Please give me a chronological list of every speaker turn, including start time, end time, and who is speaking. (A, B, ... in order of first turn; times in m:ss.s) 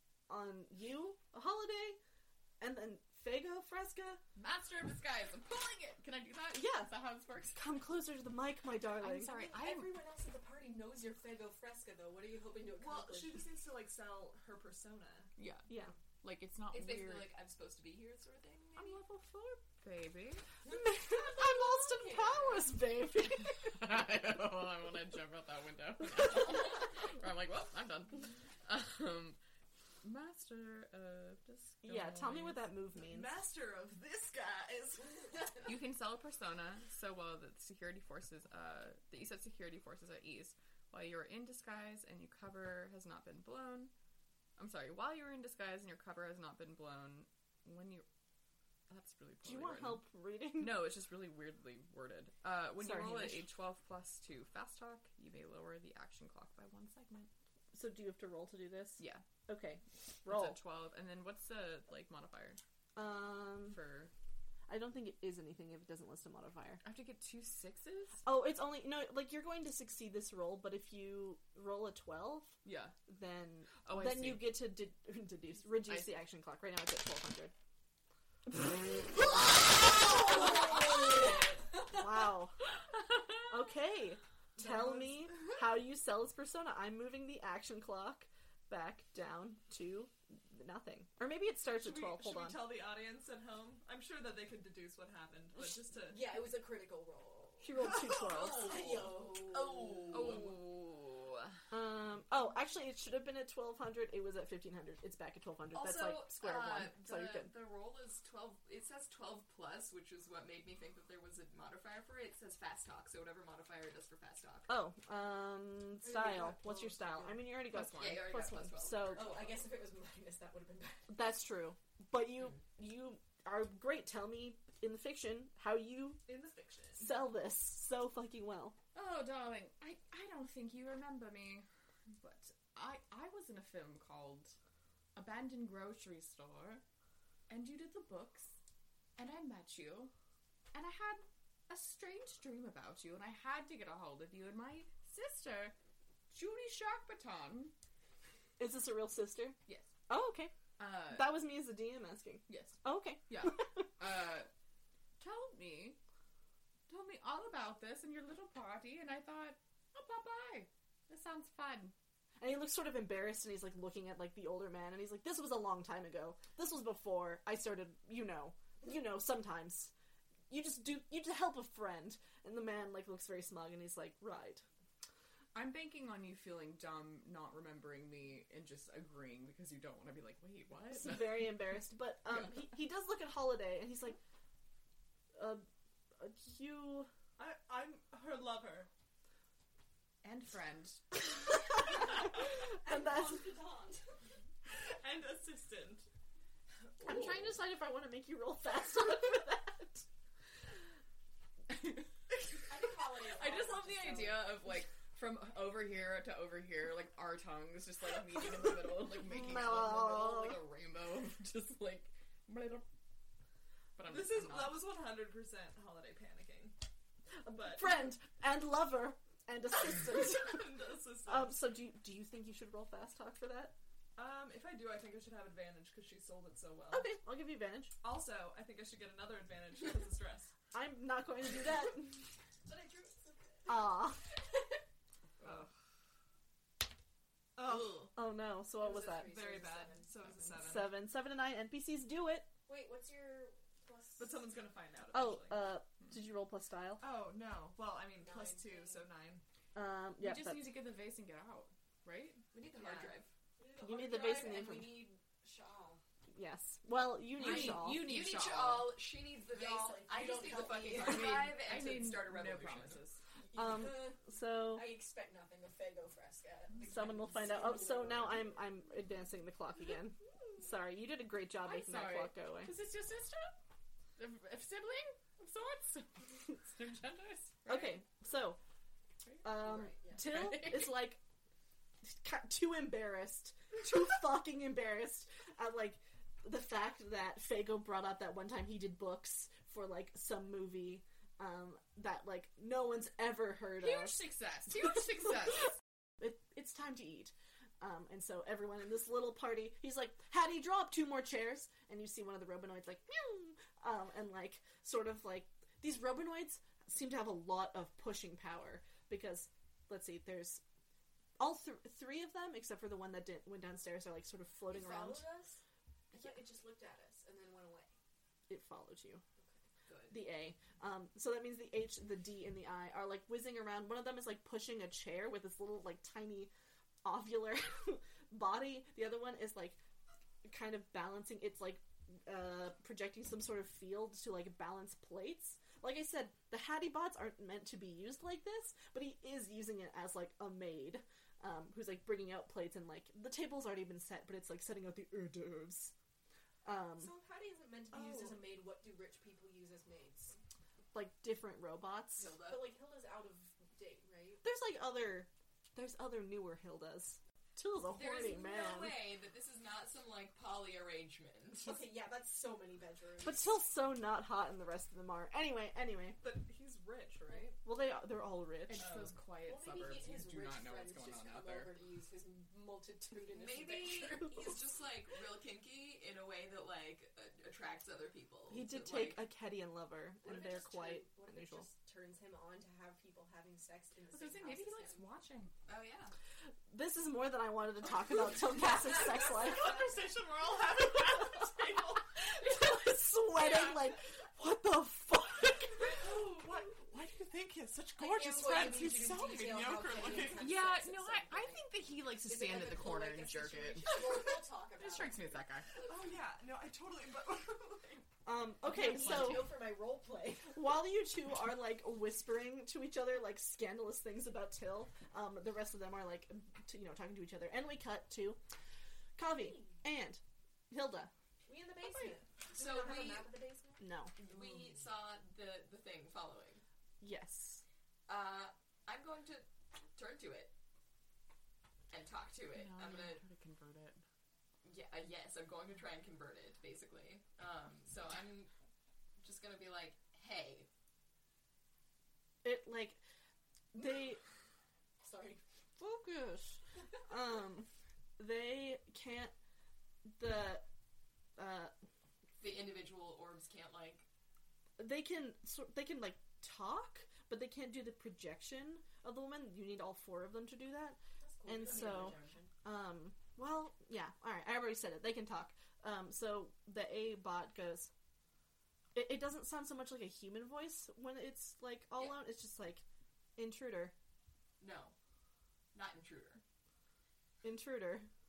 0:00.3-0:02.0 A
0:02.6-0:04.2 A
0:04.4-0:07.7 B
0:06.5-0:07.0 A
0:07.5-0:09.4 A
0:09.0-0:10.0 B
0:09.3-0:13.5 C
0:12.7-0:15.3 D
0:15.4-0:17.3 B
0:15.7-0:15.9 A
0:16.7-0:19.0 E
0:18.8-0:19.6 A
0:19.8-0:20.4 B
0:20.6-0:22.8 C
0:20.6-0:23.8 A
0:23.6-0:29.4 B
0:30.0-0:32.6 B
0:31.8-0:33.4 A
0:33.0-0:35.6 D
0:35.6-0:43.9 B
0:44.6-0:48.0 B
0:48.9-0:50.0 B
0:49.4-0:50.9 A
0:50.6-0:57.3 B
0:52.8-0:53.5 A
0:57.7-1:00.6 A
0:59.0-0:59.2 B
1:00.3-1:02.6 B
1:03.0-1:03.8 A
1:03.6-1:04.1 B
1:04.7-1:06.8 A
1:06.8-1:08.2 B
1:08.2-1:17.5 A
1:12.6-1:13.0 B
1:13.8-1:14.7 B
1:15.8-1:16.2 B
1:18.5-1:20.8 A
1:21.8-1:22.6 A
1:23.5-1:32.7 A
1:31.7-1:36.4 D
1:36.0-1:40.5 C
1:37.6-1:38.8 A
1:38.7-1:40.5 E
1:40.1-1:41.6 B
1:41.7-1:47.5 A
1:45.7-1:54.7 E
1:54.7-1:59.3 A
1:56.0-1:57.5 C
1:57.7-1:58.2 B
1:57.9-1:59.6 E
1:59.1-2:01.3 C
2:01.1-2:06.2 A
2:06.2-2:07.1 D
2:07.0-2:08.8 A
2:08.9-2:11.6 B
2:12.2-2:14.6 B
2:15.1-2:16.8 B
2:17.5-2:18.5 B
2:19.2-2:20.1 B
2:20.7-2:25.7 B
2:26.3-2:27.7 B
2:28.6-2:29.6 A
2:29.7-2:29.9 B
2:30.1-2:30.5 A
2:30.8-2:31.4 B
2:31.1-2:33.9 A
2:32.5-2:34.5 B
2:35.2-2:36.0 B
2:36.9-2:41.9 B
2:42.4-2:49.9 A
2:50.5-2:54.6 A
2:55.5-3:01.6 B
3:00.9-3:04.2 A
3:05.3-3:05.6 A
3:06.2-3:07.1 A
3:07.4-3:08.9 D
3:10.2-3:11.2 B
3:11.4-3:13.5 A
3:12.8-3:14.0 C
3:14.7-3:16.1 D
3:17.0-3:20.0 A
3:21.7-3:32.8 B
3:22.6-3:24.6 C
3:29.2-3:30.6 A
3:34.0-3:35.0 B
3:34.0-3:36.7 D
3:37.4-3:43.8 A
3:37.5-3:38.1 D
3:40.0-3:41.6 D
3:44.2-3:47.2 D
3:46.9-3:47.9 A
3:48.0-3:50.5 D
3:50.7-3:52.3 A
3:52.6-3:53.5 D
3:53.7-3:54.3 A
3:55.4-3:55.7 D
3:57.6-3:58.1 D
3:57.6-3:59.3 A
3:58.8-4:00.7 C
3:59.1-4:00.9 D
4:00.6-4:02.5 A
4:02.7-4:04.5 C
4:04.2-4:05.7 D
4:05.1-4:07.0 A
4:07.0-4:09.4 D
4:08.2-4:09.1 C
4:09.7-4:10.8 A
4:10.2-4:12.4 B
4:12.5-4:13.3 E
4:13.6-4:16.0 C
4:13.8-4:15.1 A
4:16.3-4:18.0 A
4:17.4-4:18.9 B
4:17.9-4:23.0 E
4:19.5-4:21.4 C
4:20.9-4:23.2 B
4:23.4-4:28.5 C
4:23.5-4:24.9 A
4:26.8-4:32.7 A
4:31.6-4:33.6 B
4:34.2-4:38.0 B
4:37.6-4:38.6 A
4:39.2-4:41.1 B
4:39.4-4:41.2 A
4:39.7-4:40.2 C
4:42.0-4:54.2 A
4:53.8-4:55.7 B
4:56.2-5:10.6 A
5:11.4-5:15.3 A
5:14.6-5:15.6 C
5:16.1-5:17.9 C
5:18.5-5:19.2 A
5:19.9-5:20.1 E
5:20.1-5:26.5 A
5:27.0-5:29.8 A
5:30.4-5:45.9 A
5:46.6-5:47.1 A
5:47.0-5:50.4 C
5:47.9-5:48.4 D
5:50.9-5:52.3 A
5:52.2-5:52.7 E
5:52.4-5:54.4 C
5:54.4-5:59.1 A
5:57.9-6:01.9 E
6:01.6-6:03.6 C
6:03.2-6:06.2 A
6:06.2-6:07.6 D
6:07.6-6:09.0 A
6:08.6-6:11.8 B
6:08.8-6:14.5 C
6:13.3-6:19.3 E
6:18.5-6:21.7 A
6:20.2-6:25.1 C
6:24.1-6:25.5 B
6:25.7-6:26.1 E
6:26.7-6:29.9 A
6:28.7-6:30.0 C
6:28.8-6:32.0 D
6:31.0-6:36.0 A
6:35.8-6:40.6 D
6:38.0-6:41.7 C
6:40.3-6:45.8 B
6:42.2-6:45.9 C
6:45.8-6:48.0 D
6:48.2-6:49.5 A
6:48.7-6:50.7 C
6:50.5-6:58.4 A
6:59.2-7:01.1 A
6:59.4-6:59.7 C
7:01.4-7:04.4 C
7:01.8-7:02.2 A
7:02.5-7:03.3 E
7:03.8-7:04.2 A
7:04.2-7:06.6 E
7:07.0-7:07.6 A
7:08.1-7:10.5 E
7:11.9-7:13.2 E
7:12.5-7:14.0 B
7:14.6-7:18.5 E
7:19.2-7:20.7 E
7:22.4-7:23.0 A
7:23.7-7:24.2 A
7:25.0-7:25.4 C
7:25.8-7:29.3 A
7:30.1-7:30.6 A
7:31.4-7:31.7 A
7:32.4-7:34.0 E
7:34.8-7:47.9 A
7:41.2-7:42.5 C
7:41.6-7:42.4 E
7:48.9-7:52.8 A
7:52.0-7:52.2 E
7:53.4-7:53.9 A
7:54.6-7:55.0 E
7:55.7-7:56.4 E
7:57.4-7:58.1 A